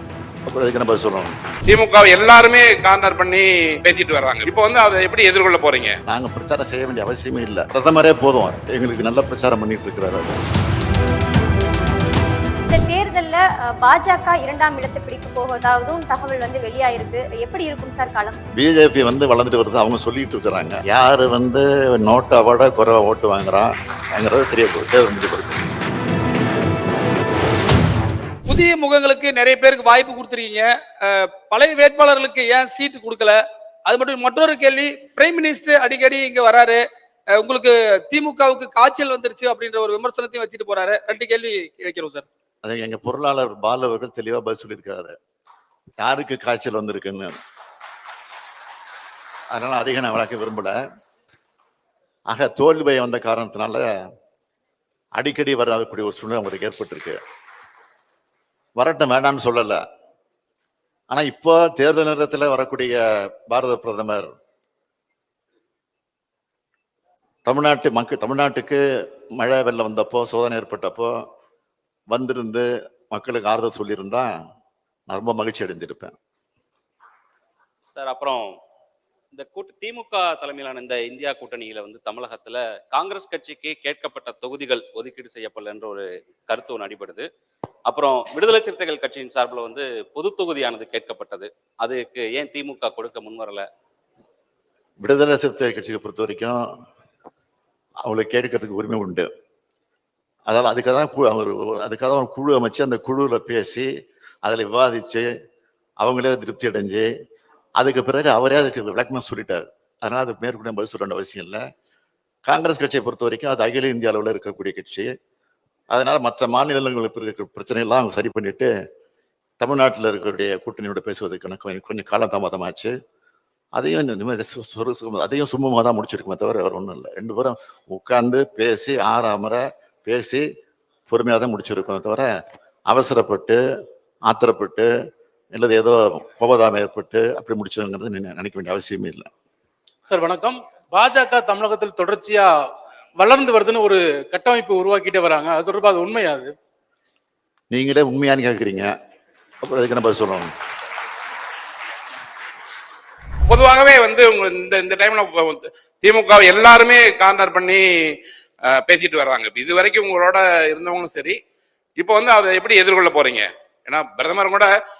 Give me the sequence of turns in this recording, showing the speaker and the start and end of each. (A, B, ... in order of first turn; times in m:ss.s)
0:00.5-0:01.3 A
0:01.7-0:06.0 B
0:06.1-0:10.4 A
0:12.7-0:18.4 C
0:18.6-0:25.7 A
0:28.5-0:42.2 D
0:42.6-0:45.1 A
0:46.0-0:47.4 A
0:49.5-0:50.8 A
0:52.3-0:53.9 A
0:55.1-0:57.2 A
0:58.8-0:59.8 A
1:01.1-1:04.3 A
1:07.4-1:08.8 A
1:09.4-1:11.2 A
1:12.1-1:14.3 A
1:15.1-1:16.2 A
1:17.9-1:18.5 E
1:19.3-1:27.2 E
1:27.8-1:33.6 E
1:35.0-1:36.6 A
1:38.0-1:39.3 A
1:40.5-1:43.9 A
1:44.4-1:45.3 A
1:46.0-1:47.1 A
1:47.8-1:51.6 A
1:52.4-1:55.1 A
1:55.9-1:58.7 A
1:59.6-2:02.9 A
2:03.7-2:10.4 A
2:11.1-2:12.3 A
2:12.9-2:13.6 A
2:14.2-2:14.9 A
2:15.5-2:19.3 A
2:20.0-2:22.5 F
2:23.2-2:26.5 F
2:27.7-2:28.9 A
2:29.6-2:30.5 A
2:33.5-2:41.4 B
2:42.0-2:44.7 B